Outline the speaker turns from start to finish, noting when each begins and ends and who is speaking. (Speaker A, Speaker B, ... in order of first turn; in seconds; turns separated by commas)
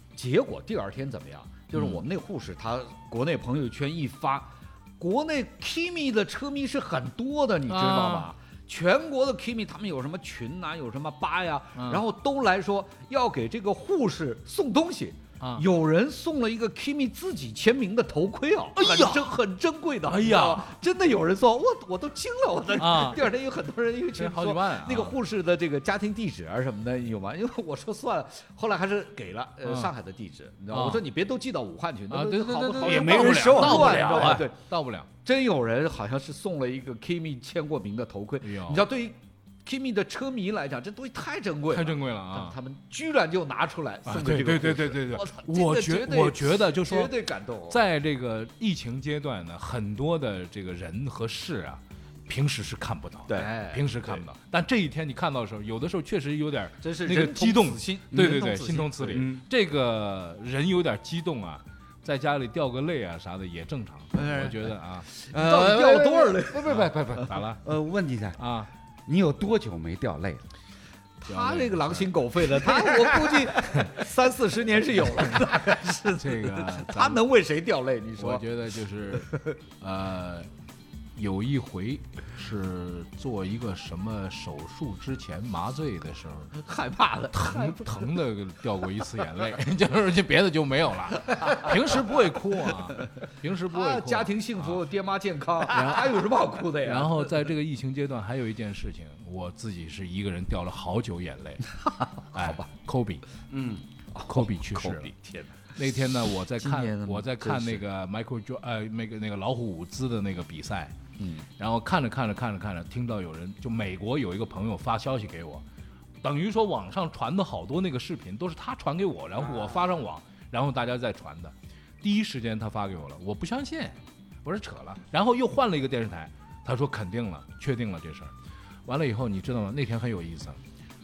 Speaker A: 0.1-34.6, Speaker B: 7.7-8.3, Speaker B: 11.8-12.0, Speaker B: 15.4-15.7, Speaker B: 18.8-19.3, Speaker B: 20.1-20.7, Speaker B: 22.8-23.3, Speaker B: 24.1-25.2, Speaker B: 29.6-29.9, Speaker B: 30.7-31.0, Speaker B: 32.1-35.1, Speaker C: 32.8-34.4, Speaker A: 35.2-47.8, Speaker B: 38.4-38.8, Speaker B: 41.7-42.6, Speaker B: 44.1-47.1, Speaker B: 47.7-65.1, Speaker A: 53.3-54.0, Speaker A: 56.8-59.3, Speaker C: 58.1-58.4, Speaker C: 59.1-59.5, Speaker A: 64.2-67.3, Speaker C: 65.3-68.4, Speaker B: 66.6-67.6, Speaker B: 68.4-68.7, Speaker C: 69.1-70.5, Speaker A: 71.2-78.5, Speaker B: 71.3-72.2, Speaker B: 75.2-77.2, Speaker B: 78.2-80.5, Speaker A: 79.1-79.6, Speaker B: 81.2-86.5, Speaker A: 86.5-88.0, Speaker B: 87.3-94.8, Speaker A: 93.7-97.5, Speaker B: 95.7-101.7, Speaker A: 101.8-102.7, Speaker B: 102.3-103.2, Speaker C: 103.5-103.8, Speaker A: 104.1-105.6, Speaker B: 104.2-105.1, Speaker B: 105.7-110.9, Speaker A: 106.6-107.8, Speaker A: 111.2-111.5, Speaker B: 111.6-115.6, Speaker B: 116.2-128.3, Speaker C: 119.4-119.8, Speaker B: 128.9-130.6